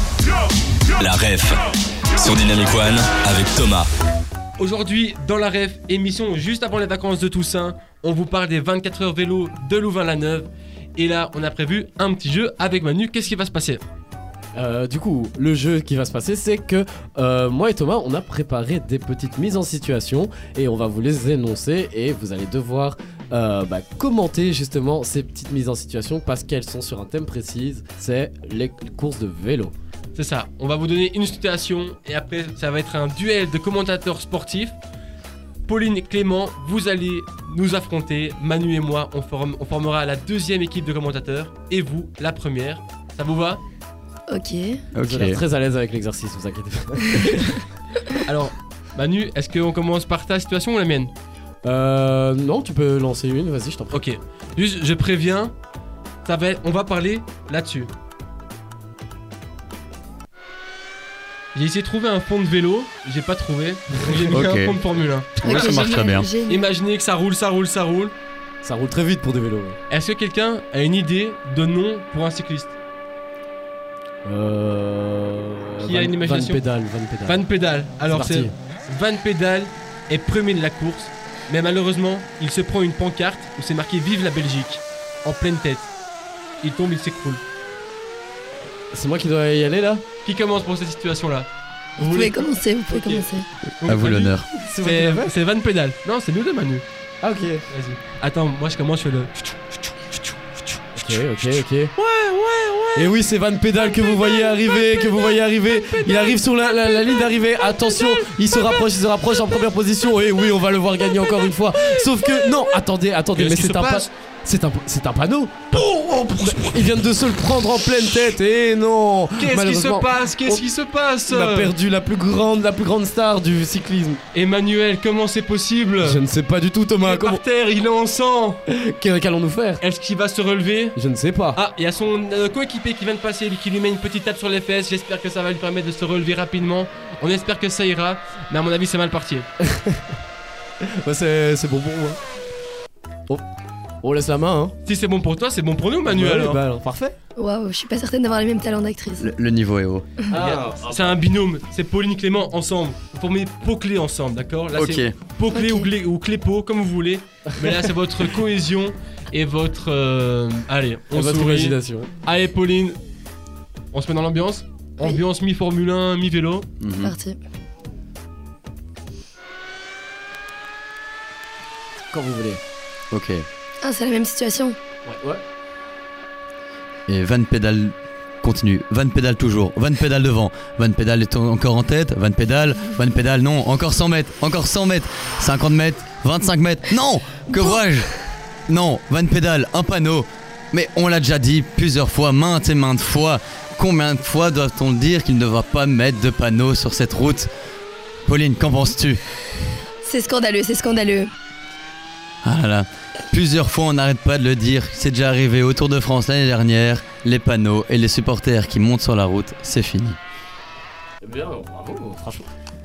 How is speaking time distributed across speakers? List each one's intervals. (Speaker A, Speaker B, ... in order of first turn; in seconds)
Speaker A: 1.0-1.6, 2.2-3.9
Speaker B: 4.6-13.8, 30.1-34.8, 35.7-43.6, 48.2-51.1, 53.9-55.5, 56.2-57.9, 61.5-68.1, 69.9-72.7, 75.8-76.6, 77.2-85.9, 86.6-87.4, 90.2-93.3, 93.8-96.8, 97.7-99.5, 100.8-103.2, 106.0-106.4, 113.3-114.1, 115.7-117.0, 119.4-121.7, 124.3-126.2, 127.0-128.6, 129.8-131.0, 131.6-139.5, 144.8-146.6, 150.3-163.0, 163.9-166.7
Speaker C: 14.6-29.7, 45.0-47.6, 51.6-54.0, 68.6-69.8, 74.2-77.4, 78.1-78.5, 88.9-90.0, 94.7-95.3, 97.2-97.7, 101.0-101.9, 103.0-120.7, 121.3-124.2, 126.0-127.4, 128.7-129.8, 131.0-131.6, 139.7-140.0, 140.8-142.2, 144.0-144.8, 146.1-147.2, 150.3-151.2, 161.1-162.1, 172.1-172.6, 175.1-175.4, 211.2-212.5
Speaker D: 44.3-44.8, 65.4-66.6, 92.0-93.5, 147.4-149.3, 155.5-155.9, 167.0-167.4, 173.8-174.8, 200.0-201.3
Speaker E: 44.9-45.4, 64.3-64.8, 65.4-66.3, 93.9-94.5, 149.2-150.1, 154.8-155.1, 166.8-167.1, 173.1-173.4, 177.1-188.1, 188.7-197.5, 198.3-199.2, 202.4-210.2